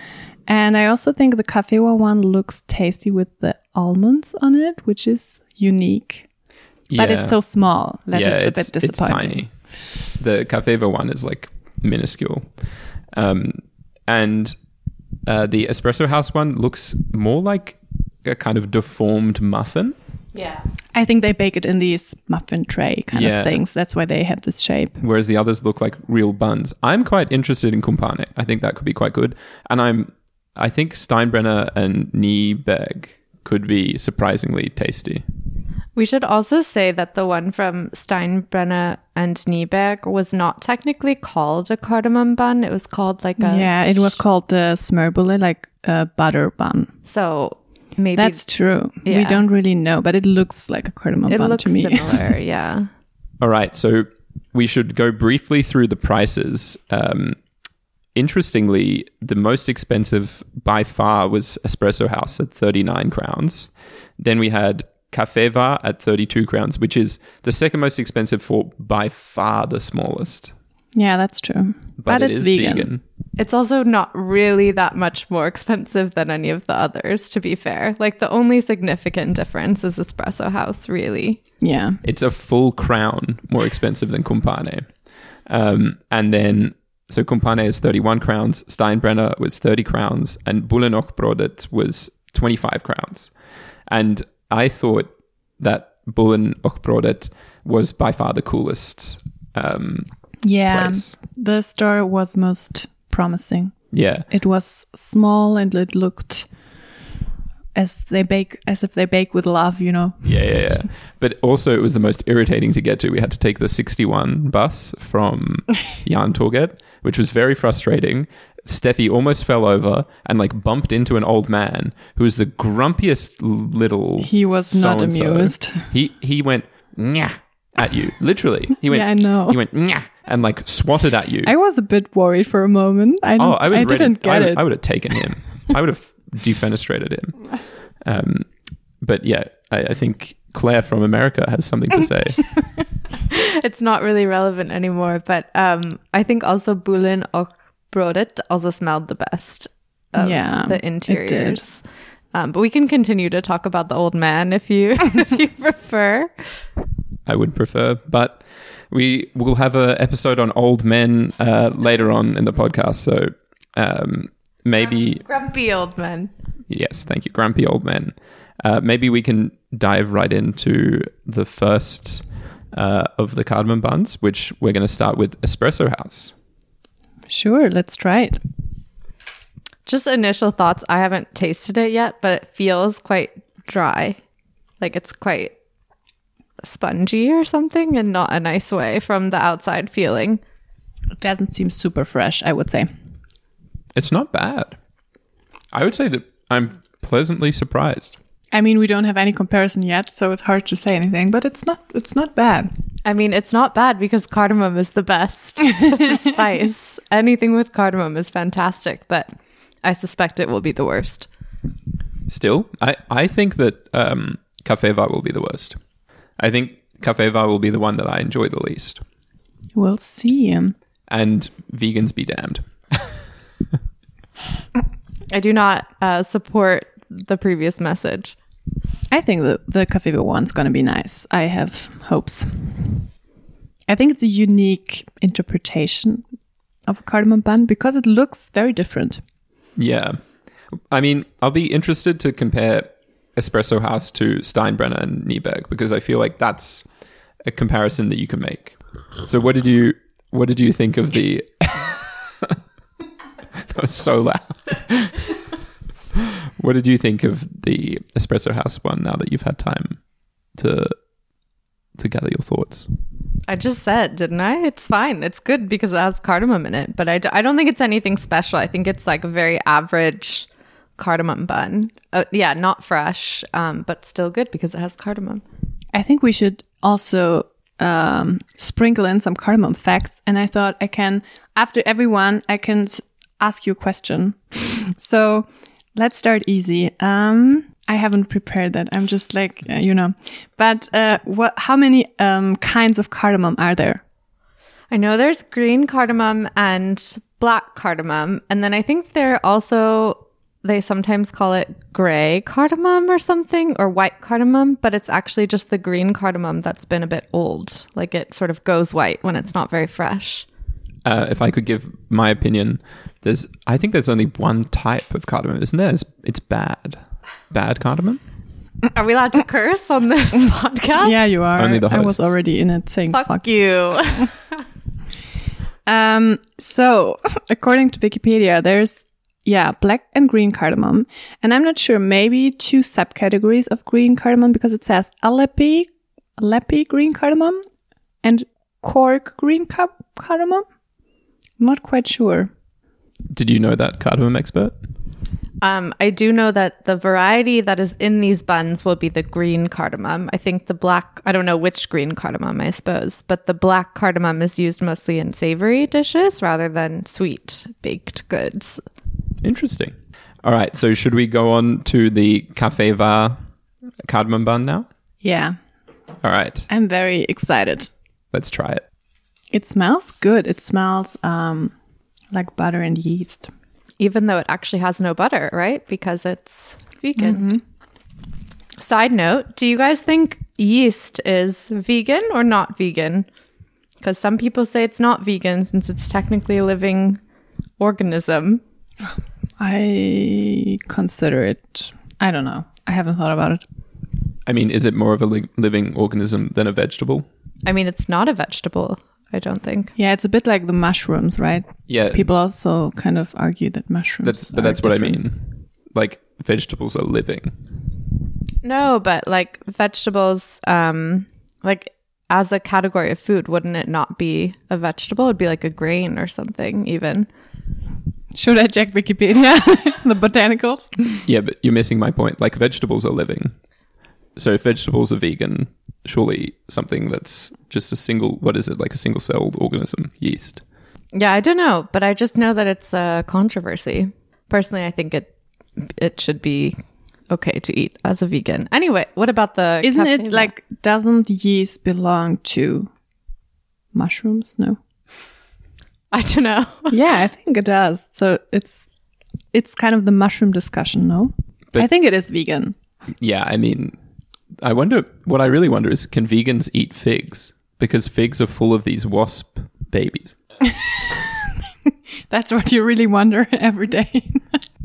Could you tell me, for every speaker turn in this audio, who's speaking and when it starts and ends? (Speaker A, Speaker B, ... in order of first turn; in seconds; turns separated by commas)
Speaker A: 0.4-6.3, Speaker B: 6.9-14.6, Speaker A: 7.0-9.4, Speaker B: 15.2-19.9, Speaker C: 20.3-20.6, Speaker A: 20.9-25.0, Speaker B: 23.1-23.6, Speaker B: 25.0-35.2, Speaker C: 35.9-44.2, Speaker A: 43.4-46.9, Speaker C: 47.0-49.4, Speaker A: 48.1-52.3, Speaker C: 51.3-52.9, Speaker B: 53.4-57.4, Speaker B: 58.1-70.5, Speaker A: 70.9-72.9, Speaker B: 72.0-73.0, Speaker C: 73.4-81.4, Speaker A: 81.6-82.0, Speaker B: 82.0-93.3, Speaker B: 93.9-101.1, Speaker A: 100.4-106.5, Speaker B: 103.9-104.3, Speaker A: 107.7-110.7, Speaker B: 110.2-131.5, Speaker A: 124.2-125.9, Speaker A: 128.9-129.6, Speaker A: 131.4-135.2, Speaker B: 133.4-142.6, Speaker C: 143.3-156.3, Speaker A: 150.2-151.6, Speaker B: 157.2-165.2, Speaker C: 164.8-166.3, Speaker B: 166.7-176.3, Speaker A: 177.3-178.4, Speaker C: 179.8-184.2, Speaker C: 184.8-185.5, Speaker C: 186.6-190.4, Speaker A: 191.2-192.9, Speaker B: 193.9-194.8, Speaker B: 195.7-198.1, Speaker A: 198.5-202.7, Speaker C: 203.0-209.3, Speaker C: 209.8-211.3, Speaker B: 212.3-215.8, Speaker B: 216.4-219.0, Speaker A: 219.7-220.7, Speaker B: 221.1-223.2, Speaker C: 225.3-228.3, Speaker A: 229.1-233.1, Speaker A: 233.9-236.2, Speaker A: 236.9-239.2, Speaker B: 239.8-240.2, Speaker B: 240.9-246.9, Speaker B: 247.4-252.6, Speaker B: 253.6-255.3, Speaker B: 256.6-260.0, Speaker B: 260.5-260.9, Speaker B: 261.9-262.9, Speaker C: 263.5-275.4, Speaker A: 275.9-294.0, Speaker C: 294.9-310.4, Speaker B: 311.0-318.2, Speaker C: 318.9-321.2, Speaker A: 321.0-323.6, Speaker B: 321.6-322.3, Speaker C: 323.1-324.4, Speaker A: 325.9-337.6, Speaker A: 338.2-340.6, Speaker A: 341.6-342.5, Speaker B: 343.3-344.7, Speaker C: 345.6-358.8, Speaker B: 359.4-363.4, Speaker B: 364.0-364.9, Speaker A: 365.2-365.6, Speaker B: 366.2-366.7, Speaker A: 366.7-367.9, Speaker B: 368.3-368.8, Speaker A: 369.5-371.7, Speaker A: 372.3-373.5, Speaker C: 374.0-377.5, Speaker A: 377.2-377.6, Speaker C: 378.8-383.3, Speaker C: 384.0-387.2, Speaker C: 387.8-388.6, Speaker A: 389.6-393.6, Speaker B: 394.4-397.3, Speaker C: 397.6-399.9, Speaker A: 399.9-405.2, Speaker B: 401.9-402.3, Speaker B: 404.2-407.6, Speaker C: 408.6-417.3, Speaker A: 418.3-421.2, Speaker B: 421.2-423.5, Speaker B: 424.4-430.6, Speaker C: 431.1-436.8, Speaker C: 437.3-440.5, Speaker A: 439.8-442.9, Speaker A: 443.9-444.8, Speaker C: 446.1-446.9, Speaker A: 446.9-448.9, Speaker A: 449.5-452.8, Speaker B: 453.2-454.0, Speaker B: 454.6-460.4, Speaker A: 460.7-461.2, Speaker A: 462.3-464.6